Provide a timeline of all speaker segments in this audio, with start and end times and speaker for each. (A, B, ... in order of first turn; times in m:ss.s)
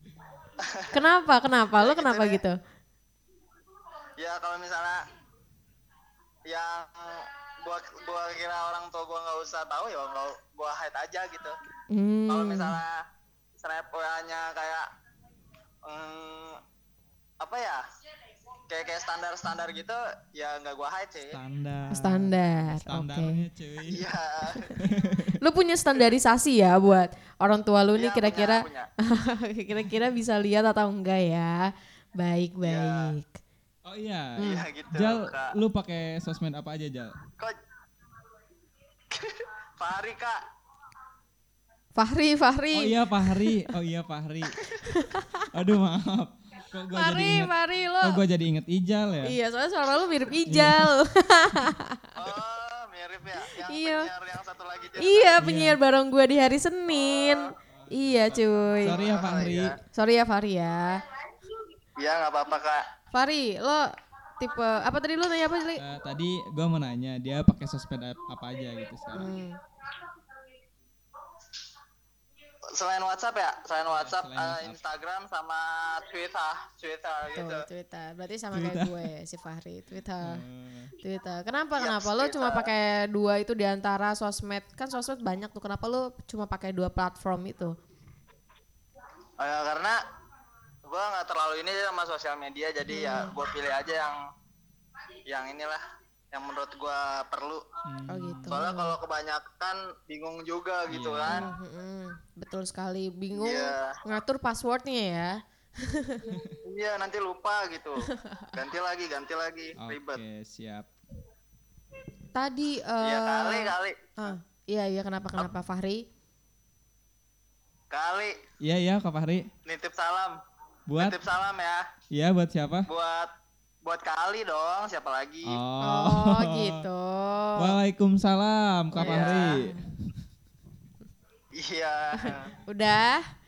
0:00.6-0:00.9 A
0:00.9-0:02.6 B
0:01.8-0:02.4 A
0:04.2-0:05.0 A
0:06.5-0:11.5 A
0:11.9-0:12.8 B
0:12.3-0:13.0 A
0:13.6-0:14.8 A
0:15.8-0:16.6 A
0:17.4-0:17.8 A
0:18.7-0:21.3 A
0:21.3-0:24.1 C
0:21.9-0:23.4 B
0:23.8-0:24.7 A
0:24.8-0:25.4 C
0:25.4-0:33.4 B
0:27.9-0:28.9 A
0:32.6-0:33.1 A
0:33.8-0:37.2 C
0:34.4-0:35.5 A
0:39.1-0:40.4 A
0:42.0-0:43.5 B
0:42.7-0:44.5 C
0:44.7-0:45.5 B
0:45.5-0:49.4 C
0:46.9-0:48.2 B
0:49.2-0:52.1 B
0:50.4-0:50.9 C
0:52.2-0:55.4 A
0:53.6-0:54.1 B
0:55.0-0:59.0 B
0:55.4-0:55.8 C
0:56.9-0:57.4 A
0:57.6-0:59.8 C
0:58.9-0:59.7 A
0:59.9-1:01.0 B
1:02.0-1:02.8 A
1:03.1-1:05.8 B
1:05.8-1:09.3 C
1:09.1-1:09.6 B
1:12.7-1:17.6 A
1:13.9-1:14.8 C
1:17.3-1:20.4 B
1:18.5-1:19.1 C
1:20.2-1:20.9 C
1:21.0-1:27.8 B
1:21.8-1:22.7 A
1:29.4-1:30.0 A
1:30.9-1:34.2 A
1:32.9-1:33.3 B
1:35.3-1:37.6 A
1:37.9-1:38.6 C
1:38.1-1:38.9 B
1:38.5-1:41.5 A
1:40.9-1:41.5 C
1:41.3-1:46.3 B
1:43.3-1:43.9 A
1:46.3-1:46.6 C
1:46.6-1:50.2 A
1:49.8-1:50.9 C
1:52.3-1:56.0 B
1:53.0-1:54.3 A
1:57.9-1:58.4 A
1:58.6-1:59.5 C
1:59.6-2:00.4 A
2:00.9-2:01.2 C
2:01.0-2:01.8 A
2:02.1-2:02.9 C
2:02.9-2:03.3 A
2:03.8-2:05.6 A
2:05.4-2:06.8 C
2:05.8-2:07.7 B
2:07.6-2:09.8 C
2:08.9-2:09.8 B
2:09.0-2:09.6 A
2:11.6-2:12.5 A
2:12.1-2:13.2 B